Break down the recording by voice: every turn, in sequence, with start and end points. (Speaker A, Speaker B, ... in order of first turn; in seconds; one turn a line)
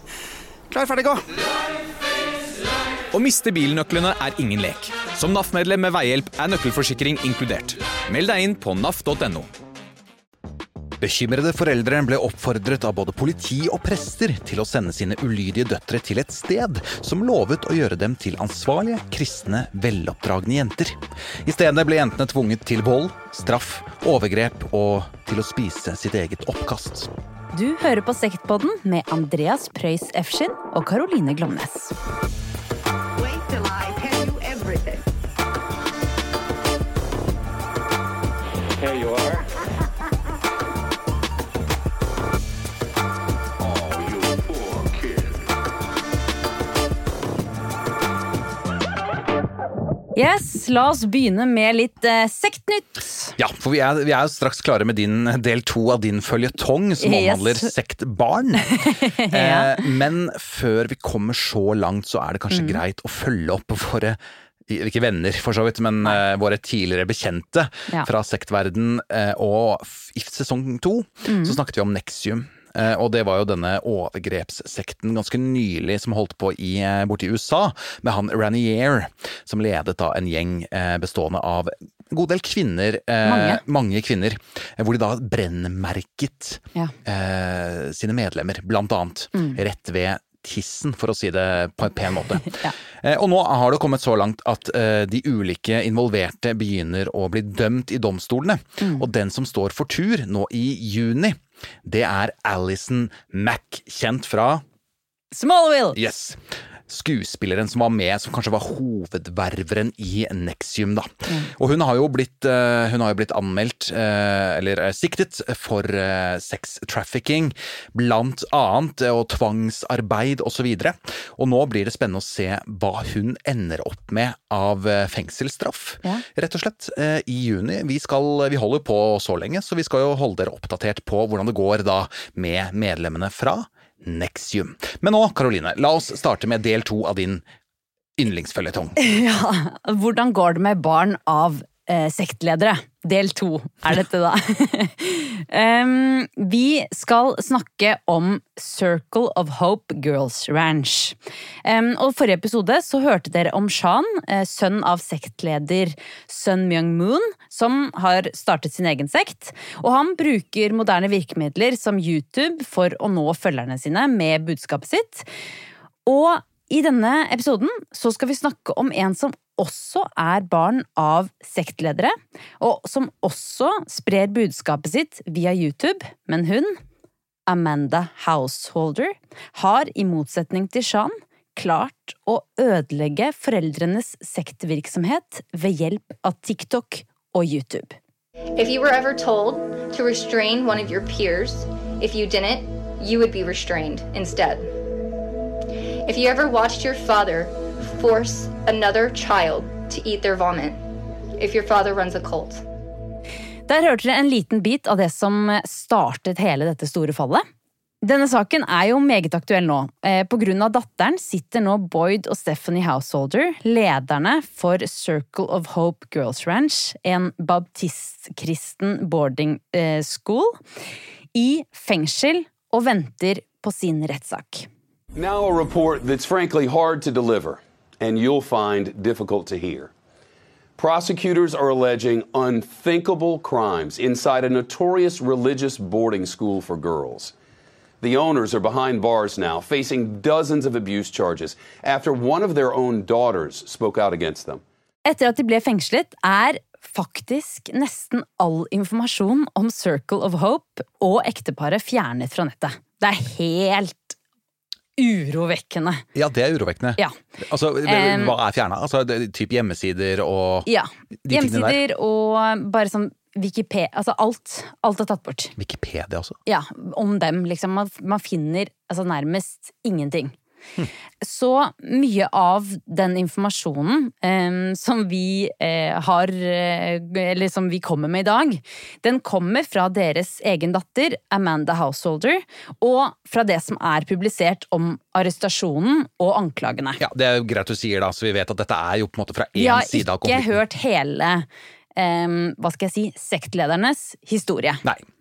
Speaker A: 0.7-1.4
Speaker A: 3.1-9.5
Speaker B: 11.0-27.1
Speaker C: 27.5-31.9
Speaker D: 38.9-39.1
Speaker D: 43.6-45.4
Speaker C: 50.1-53.4
Speaker B: 53.4-104.6
Speaker C: 57.0-57.7
Speaker C: 58.6-59.9
Speaker C: 62.5-62.8
Speaker C: 71.2-71.6
Speaker C: 83.2-83.6
Speaker C: 92.5-92.7
Speaker C: 105.3-106.0
Speaker B: 105.9-137.4
Speaker B: 138.2-139.0
Speaker C: 139.0-165.3
Speaker C: 166.1-176.8
Speaker C: 177.5-187.9
Speaker E: 188.6-194.8
Speaker E: 196.0-200.8
Speaker E: 201.4-202.6
Speaker C: 203.7-207.4
Speaker C: 208.0-220.6
Speaker C: 221.3-224.7
Speaker D: 225.2-229.9
Speaker D: 230.8-237.3
Speaker D: 238.0-244.6
Speaker C: 245.1-254.2
Speaker C: 255.0-256.0
Speaker B: 256.1-260.7
Speaker C: 257.8-258.4
Speaker C: 260.6-265.5
Speaker B: 261.2-261.8
Speaker B: 265.6-266.4
Speaker C: 266.4-270.4
Speaker C: 271.2-287.0
Speaker B: 287.0-290.6
Speaker C: 289.6-294.8